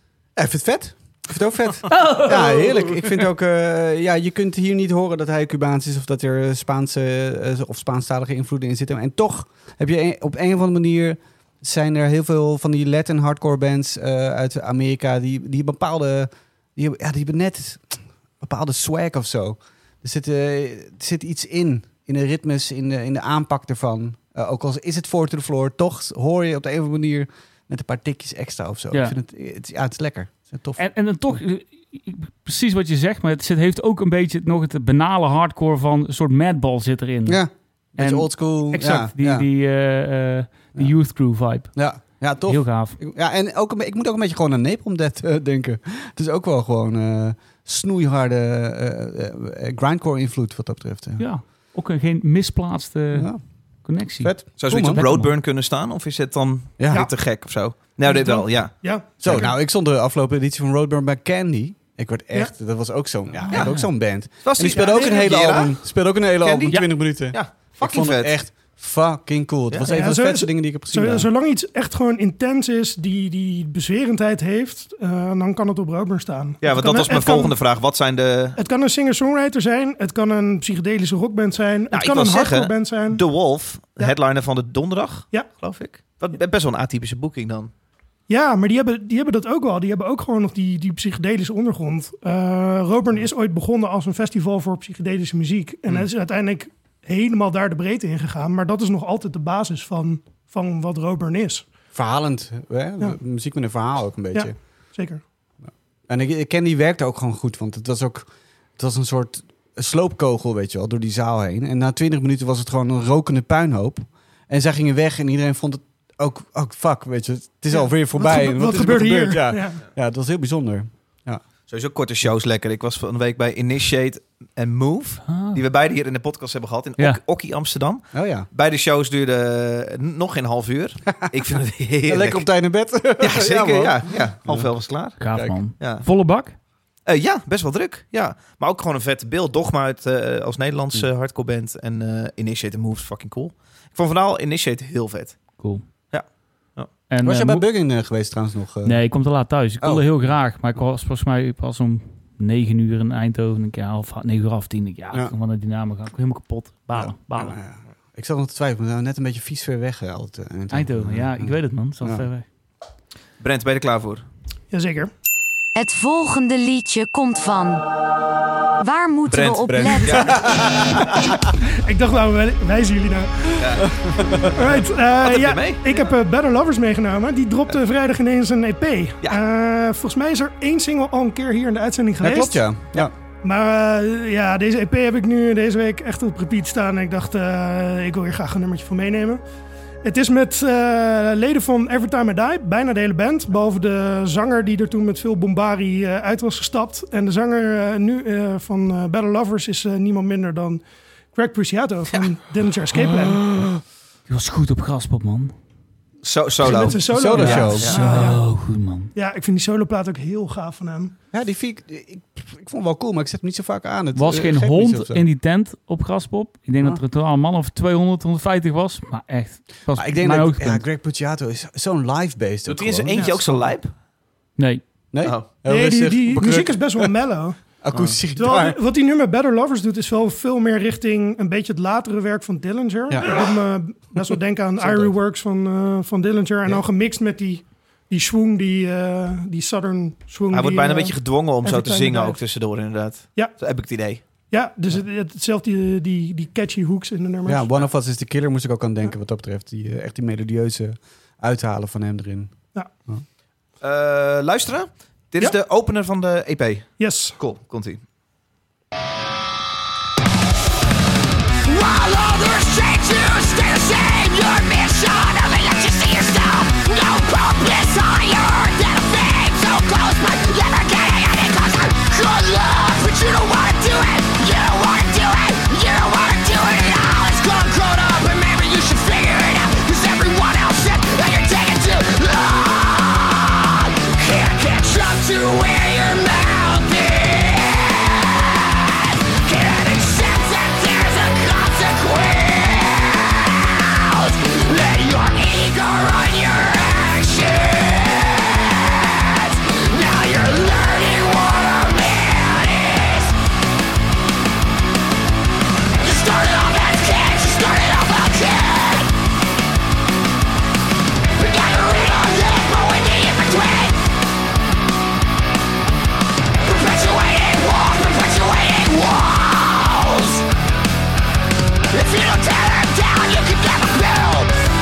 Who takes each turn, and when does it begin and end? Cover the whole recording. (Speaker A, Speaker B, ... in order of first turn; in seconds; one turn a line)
Speaker A: 0.3-31.4
Speaker B: 1.9-3.1
Speaker B: 30.8-37.4
Speaker A: 37.2-39.5
Speaker B: 38.0-43.0
Speaker A: 41.7-51.3
Speaker B: 51.2-55.3
Speaker A: 53.1-53.4
Speaker A: 54.2-55.0
Speaker C: 54.6-59.5
Speaker A: 56.8-57.1
Speaker D: 58.0-59.5
Speaker A: 59.2-71.3
Speaker B: 63.5-63.9
Speaker C: 63.5-68.3
Speaker D: 64.9-65.2
Speaker D: 69.8-77.5
Speaker C: 76.6-78.6
Speaker D: 78.5-83.2
Speaker C: 81.9-87.7
Speaker D: 88.3-101.6
Speaker A: 101.9-104.5
Speaker D: 104.3-105.2
Speaker A: 106.1-121.4
Speaker D: 117.7-119.8
Speaker C: 121.7-132.4
Speaker B: 125.3-125.6
Speaker A: 128.1-128.5
Speaker A: 132.1-134.7
Speaker C: 133.2-135.2
Speaker B: 135.2-136.6
Speaker A: 135.3-135.6
Speaker C: 135.8-136.1
Speaker C: 137.1-145.6
Speaker B: 145.6-145.8
Speaker C: 146.1-146.9
Speaker B: 147.1-147.7
Speaker A: 147.2-149.1
Speaker B: 148.8-157.6
Speaker A: 149.8-150.1
Speaker A: 156.9-162.3
Speaker B: 160.7-162.4
Speaker C: 163.4-164.2
Speaker D: 164.7-165.1
Speaker E: 165.7-167.8
Speaker E: 168.8-170.4
Speaker C: 169.3-171.3
Speaker A: 169.6-171.4
Speaker D: 171.8-173.8
Speaker C: 173.6-174.5
Speaker A: 174.2-174.5
Speaker D: 174.5-182.6
Speaker C: 175.2-175.8
Speaker A: 182.2-183.1
Speaker D: 183.4-189.4
Speaker D: 190.0-203.4
Speaker B: 204.3-205.5
Speaker C: 206.2-208.1
Speaker D: 206.6-208.5
Speaker B: 206.6-209.1
Speaker A: 207.1-207.9
Speaker D: 209.1-211.1
Speaker A: 211.3-215.2
Speaker B: 214.2-220.8
Speaker A: 219.9-223.5
Speaker C: 222.7-223.9
Speaker D: 223.1-223.4
Speaker B: 224.6-224.8
Speaker A: 225.1-227.2
Speaker C: 225.2-225.5
Speaker D: 225.6-227.8
Speaker A: 227.8-228.8
Speaker C: 227.9-228.2
Speaker D: 228.3-242.4
Speaker A: 233.1-233.4
Speaker A: 234.8-235.1
Speaker C: 240.5-244.2
Speaker D: 244.5-247.8
Speaker A: 247.4-252.6
Speaker C: 253.8-258.0
Speaker D: 257.0-257.4
Speaker F: 261.6-303.3
Speaker F: 306.0-309.1
Speaker F: 311.4-314.0
Speaker F: 316.6-320.4
Speaker F: 321.9-324.5